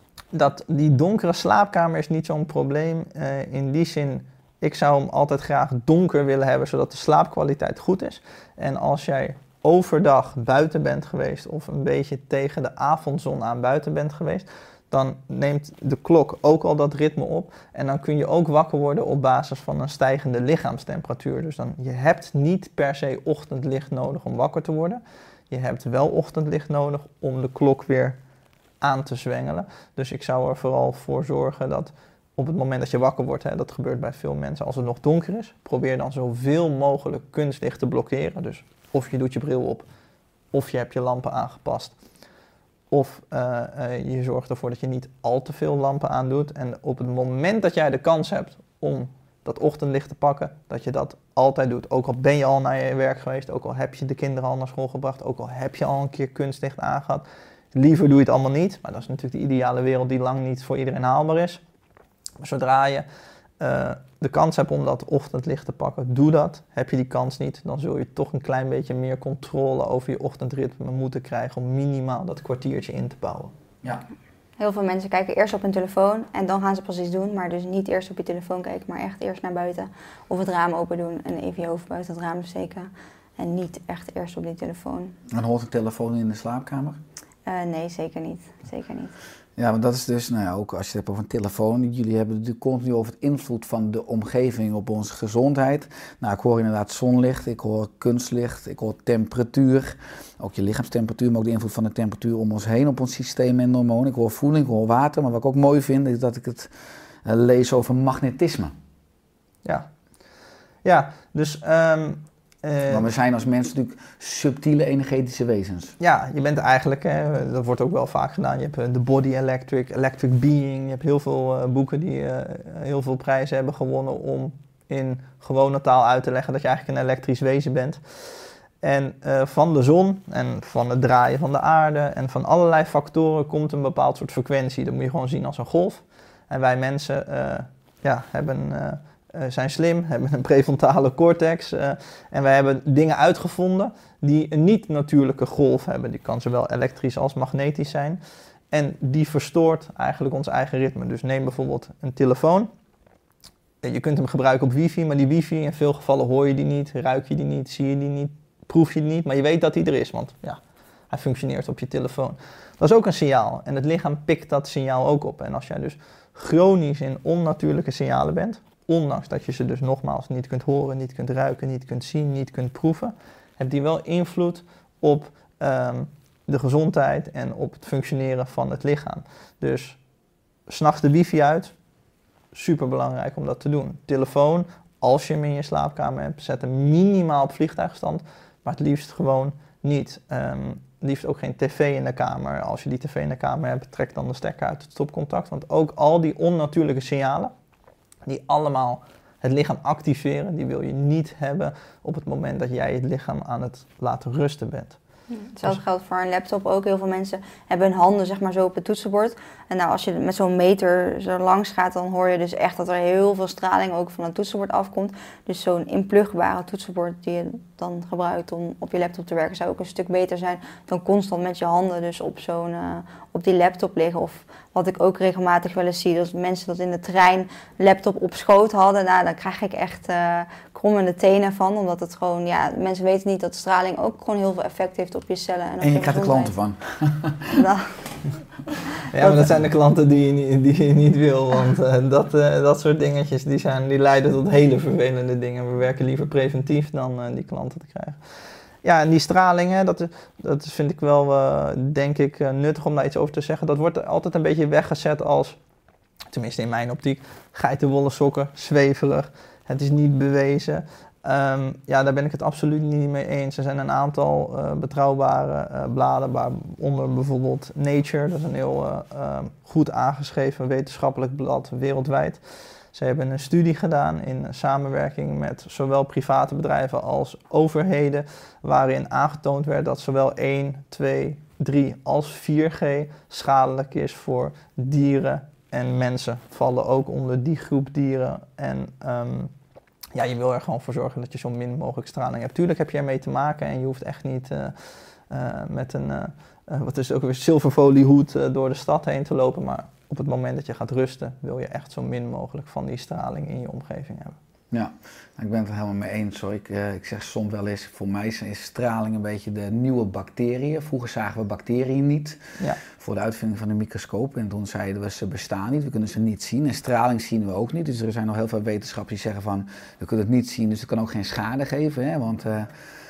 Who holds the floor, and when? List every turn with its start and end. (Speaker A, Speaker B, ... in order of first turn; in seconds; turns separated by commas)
Speaker A: 0.3-28.2, Speaker A: 28.8-39.8, Speaker A: 40.5-41.9, Speaker A: 42.9-61.6, Speaker A: 62.4-63.0, Speaker A: 63.6-73.5, Speaker B: 74.6-85.2, Speaker C: 85.3-87.0, Speaker B: 87.5-89.1, Speaker C: 89.6-106.7, Speaker C: 107.2-108.7, Speaker A: 110.8-113.0, Speaker C: 112.9-115.9, Speaker A: 116.0-128.0, Speaker A: 128.8-148.2, Speaker A: 148.7-152.7, Speaker A: 153.8-160.6, Speaker A: 161.1-180.0, Speaker A: 180.7-181.7, Speaker A: 182.5-197.5, Speaker A: 198.2-205.0, Speaker B: 205.3-236.5, Speaker C: 235.8-237.5, Speaker B: 237.5-237.9, Speaker A: 239.1-248.2, Speaker A: 248.8-255.6, Speaker A: 256.3-272.4, Speaker A: 272.9-289.5, Speaker A: 290.1-304.4, Speaker C: 304.7-322.7